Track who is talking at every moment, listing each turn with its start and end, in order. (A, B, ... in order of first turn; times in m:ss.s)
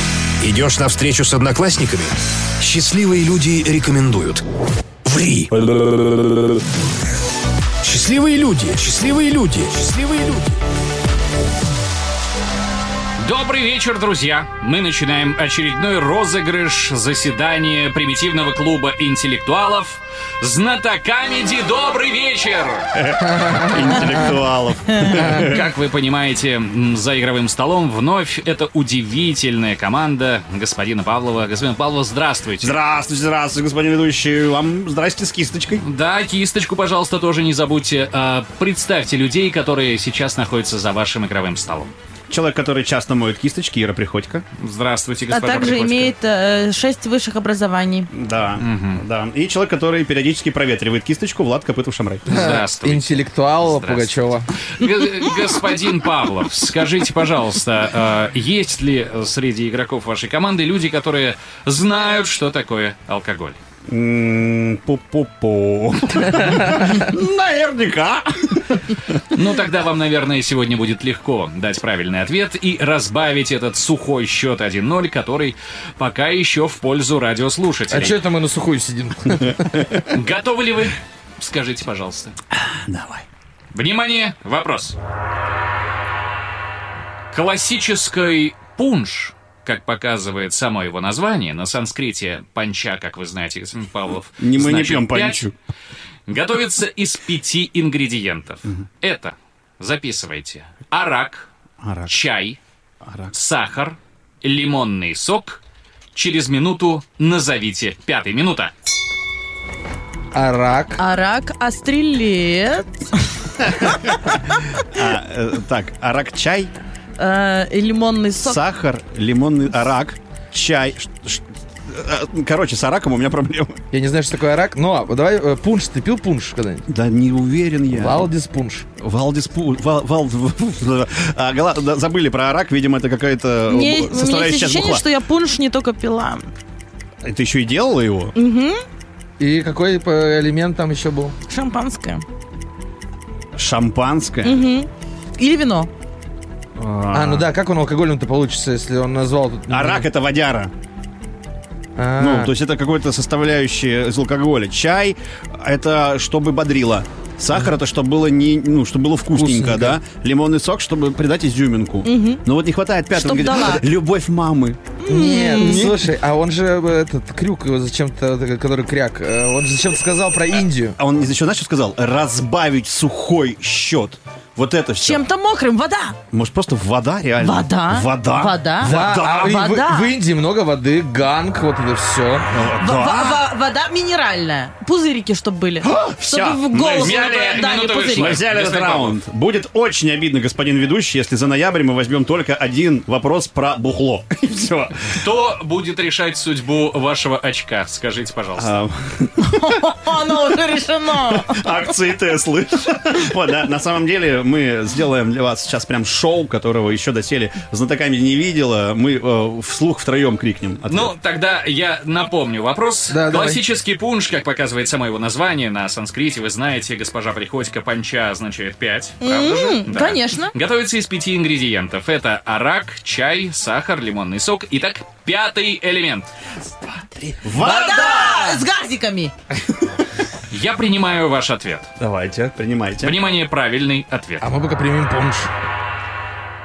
0:00.4-0:04.4 A
0:05.0-0:06.2 A
0:07.8-0:10.6 A
0:13.2-0:22.9 B
0:22.9-0:25.7 C
0:25.3-0:32.8 B
0:32.6-0:35.8 C
0:35.8-0:41.9 B
0:42.3-0:44.4 C
0:44.6-0:46.1 B
0:45.3-0:48.1 D
0:48.1-0:52.5 C
0:48.6-0:49.0 B
0:52.3-1:03.6 B
0:52.3-0:54.5 E
1:03.9-1:09.1 C
1:09.3-1:18.2 B
1:17.9-1:19.9 E
1:20.0-1:22.4 B
1:22.7-1:23.2 C
1:23.7-1:25.0 B
1:27.3-1:35.5 B
1:34.4-1:35.5 C
1:36.3-1:41.5 B
1:41.8-1:42.2 C
1:42.1-1:42.6 B
1:43.0-1:43.3 C
1:43.3-1:45.6 B
1:46.1-1:48.7 B
1:50.3-1:51.0 E
1:51.0-1:54.1 D
1:53.6-1:56.7 C
1:57.2-1:58.6 D
1:58.4-2:03.8 C
2:03.9-2:06.8 E
2:06.9-2:08.3 C
2:07.9-2:08.8 E
2:09.0-2:15.0 C
2:13.7-2:16.5 D
2:17.2-2:18.3 C
2:18.3-2:18.8 D
2:19.4-2:21.3 E
2:21.5-2:22.2 D
2:23.5-2:24.6 C
2:24.4-2:25.9 D
2:26.8-2:27.5 C
2:27.1-2:30.1 E
2:29.7-2:30.7 C
2:32.0-2:32.5 E
2:32.2-2:44.8 C
2:39.3-2:40.0 E
2:42.0-2:42.4 D
2:43.1-2:43.8 D
2:45.0-2:45.9 D
2:45.1-2:51.0 E
2:45.6-2:45.9 C
2:51.0-2:55.2 C
2:55.0-2:56.2 D
2:56.3-2:59.7 C
2:57.4-3:00.1 D
2:58.8-3:02.5 E
3:02.5-3:03.4 C
3:02.8-3:08.4 D
3:05.8-3:15.2 C
3:07.0-3:09.2 B
3:15.2-3:18.7 B
3:18.6-3:19.7 C
3:19.5-3:21.6 D
3:21.3-3:31.1 C
3:30.9-3:46.3 B
3:33.1-3:33.6 E
3:39.2-3:40.5 D
3:47.4-3:48.6 C
3:47.5-3:49.3 D
3:50.5-3:51.9 B
3:52.0-3:53.2 C
3:53.0-3:54.5 B
3:54.4-3:55.5 E